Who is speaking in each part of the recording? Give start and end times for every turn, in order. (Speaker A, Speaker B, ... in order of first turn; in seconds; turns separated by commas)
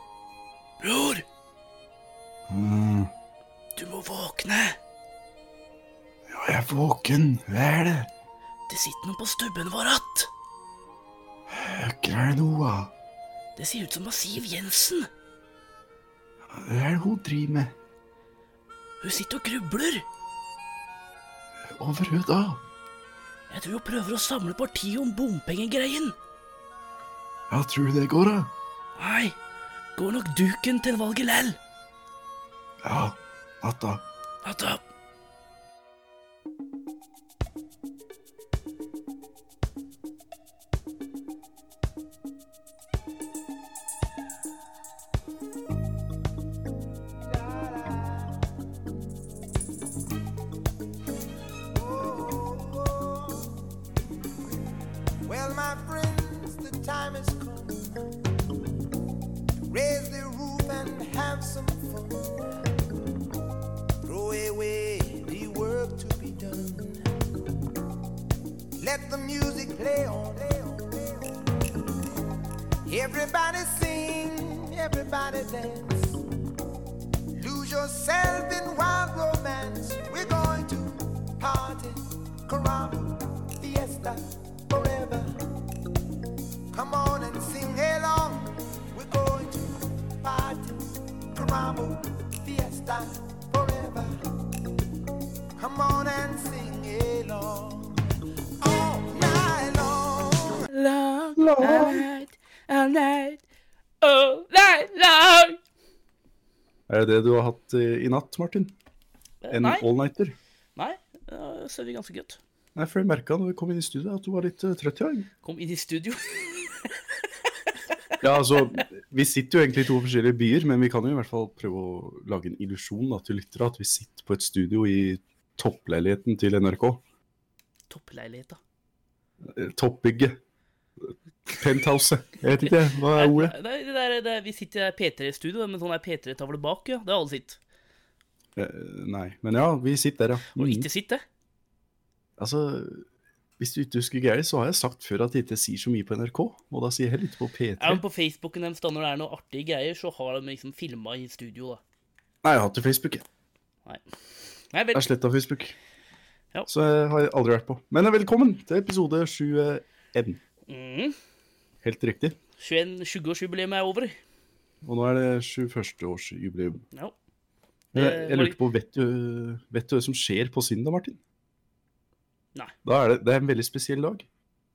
Speaker A: 0.8-1.2, Speaker B: 2.5-3.1, Speaker A: 3.8-4.8, Speaker B: 6.3-8.1, Speaker A: 8.7-10.3, Speaker B: 11.5-12.9, Speaker A: 13.6-15.1, Speaker B: 16.5-17.7, Speaker A: 19.0-20.1, Speaker B: 21.7-22.6, Speaker A: 23.5-26.1, Speaker B: 27.5-28.5, Speaker A: 29.0-29.4, Speaker A: 30.0-31.6, Speaker B: 32.8-34.0, Speaker A: 34.4-34.8, Speaker C: 47.3-48.5, Speaker C: 51.7-53.6, Speaker C: 55.2-58.0, Speaker C: 59.7-62.3, Speaker C: 64.0-67.0, Speaker C: 68.8-71.3, Speaker C: 72.9-76.2, Speaker C: 77.3-85.3, Speaker C: 86.7-90.8, Speaker C: 91.3-94.1, Speaker C: 95.6-98.0, Speaker C: 98.6-100.7, Speaker A: 100.7-103.4, Speaker B: 101.4-102.0, Speaker A: 104.0-105.6, Speaker B: 106.9-108.7, Speaker A: 109.4-109.9, Speaker B: 109.5-110.4, Speaker A: 110.8-112.4, Speaker B: 112.7-115.3, Speaker A: 115.4-116.9, Speaker B: 118.2-127.0, Speaker A: 127.9-128.6, Speaker B: 129.4-130.4, Speaker B: 131.6-133.5, Speaker A: 132.6-137.6, Speaker B: 138.6-140.9, Speaker A: 140.6-141.2, Speaker B: 142.4-143.0, Speaker B: 143.6-148.0, Speaker A: 147.8-151.8, Speaker B: 152.4-153.2, Speaker A: 154.7-155.1, Speaker B: 154.9-155.8, Speaker B: 156.7-160.4, Speaker A: 160.7-161.2, Speaker B: 161.8-162.4, Speaker A: 162.6-164.2, Speaker B: 164.8-166.8, Speaker A: 167.9-168.6, Speaker B: 167.9-171.2, Speaker B: 172.8-174.3